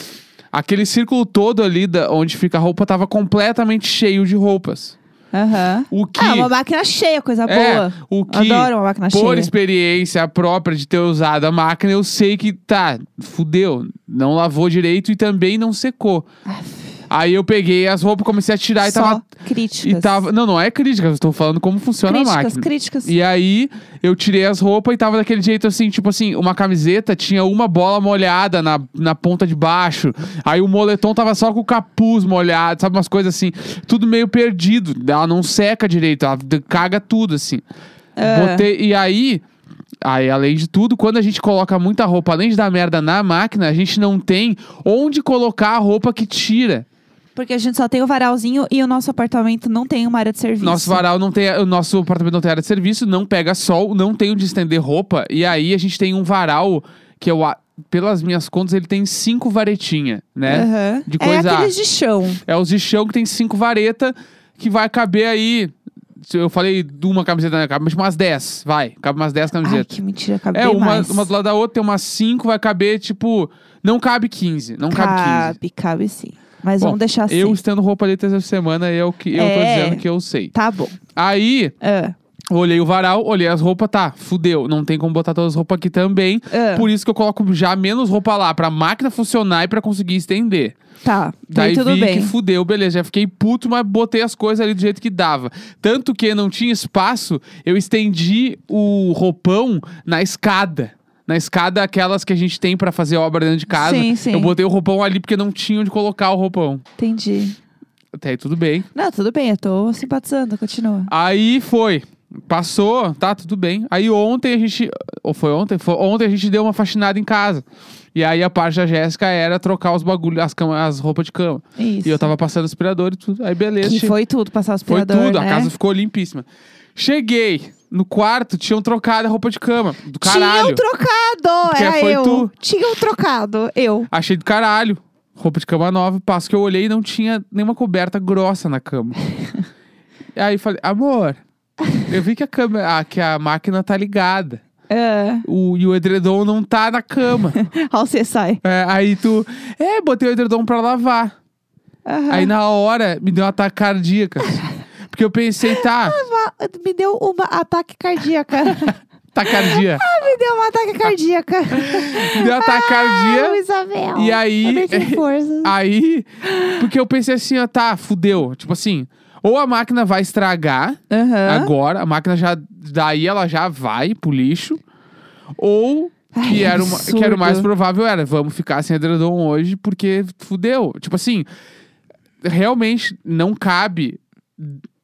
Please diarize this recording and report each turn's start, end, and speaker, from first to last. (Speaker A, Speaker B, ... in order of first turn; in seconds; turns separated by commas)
Speaker A: 0.5-5.0, Speaker B: 5.3-9.5, Speaker A: 5.9-6.5, Speaker A: 7.5-16.2, Speaker A: 17.1-19.2, Speaker B: 18.8-20.2, Speaker A: 19.8-37.6, Speaker B: 22.1-23.1, Speaker B: 38.2-38.7, Speaker A: 38.2-39.4, Speaker A: 40.0-46.9, Speaker B: 47.4-51.0, Speaker A: 50.6-61.7, Speaker B: 60.5-62.4, Speaker A: 62.5-69.9, Speaker B: 69.6-71.3, Speaker A: 70.5-75.5, Speaker B: 74.9-77.6, Speaker A: 76.8-80.5, Speaker B: 79.3-81.0, Speaker A: 81.2-81.7, Speaker B: 81.8-82.1, Speaker A: 82.5-90.8, Speaker B: 86.5-86.9, Speaker B: 91.0-92.3, Speaker A: 91.5-106.8, Speaker B: 103.7-104.5, Speaker B: 107.0-107.5, Speaker A: 108.2-108.9, Speaker B: 108.9-111.1, Speaker A: 111.1-124.2, Speaker B: 121.8-122.3, Speaker B: 123.8-125.7, Speaker A: 124.9-130.8, Speaker B: 130.2-134.1, Speaker A: 131.6-132.5, Speaker A: 134.1-139.2, Speaker A: 140.4-141.4, Speaker A: 142.1-144.6, Speaker B: 144.9-145.4, Speaker A: 145.4-147.6, Speaker B: 147.5-148.6, Speaker A: 148.6-151.3, Speaker B: 152.0-152.5, Speaker A: 152.3-156.2, Speaker B: 155.8-159.0, Speaker A: 159.3-160.0, Speaker B: 159.5-165.7, Speaker A: 161.7-163.6, Speaker A: 164.1-174.8, Speaker B: 166.5-166.8, Speaker B: 171.1-171.7, Speaker A: 175.6-181.5, Speaker B: 176.3-177.7, Speaker A: 182.4-184.8